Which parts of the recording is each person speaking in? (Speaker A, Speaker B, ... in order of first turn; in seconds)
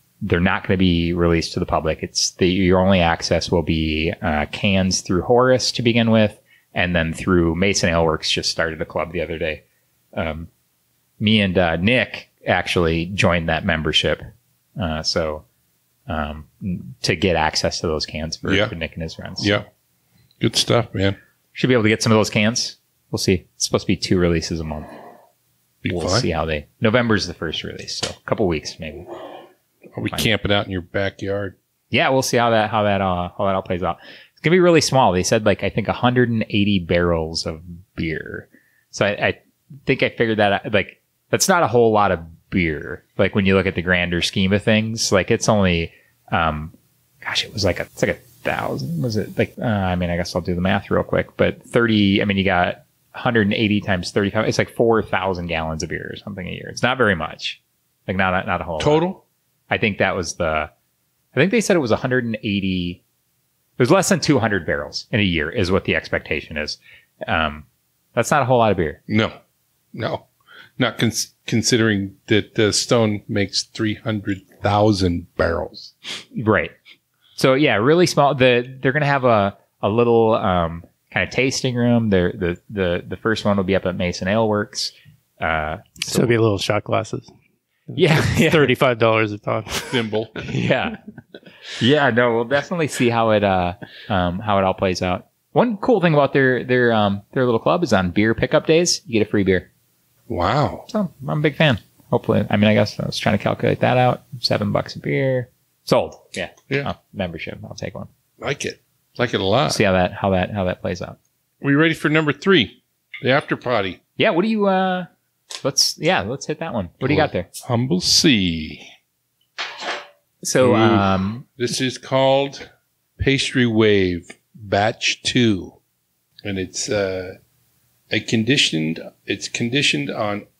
Speaker A: 0.2-9.6, 10.2-10.5, 11.2-14.2, 14.8-15.4, 16.1-19.6, 21.6-24.9, 25.9-29.1, 31.9-59.1, 59.7-60.7, 61.3-63.0, 63.8-69.0, 76.3-76.7, 77.4-86.3, 88.0-88.7, 90.5-91.0, 91.8-99.7, 100.9-108.1, 109.7-111.2, 114.2-115.1, 115.6-117.5, 120.4-121.5
Speaker B: 18.5-18.8, 19.4-19.7, 20.4-21.2, 25.8-26.3, 29.9-31.6, 58.8-59.2, 69.1-69.3, 69.9-70.3, 70.8-76.0, 89.9-90.4, 100.3-100.9, 108.4-109.8, 111.6-114.0, 117.0-118.9, 120.6-125.8, 126.4-127.4, 128.1-130.5
Speaker C: 86.1-87.3, 87.9-90.0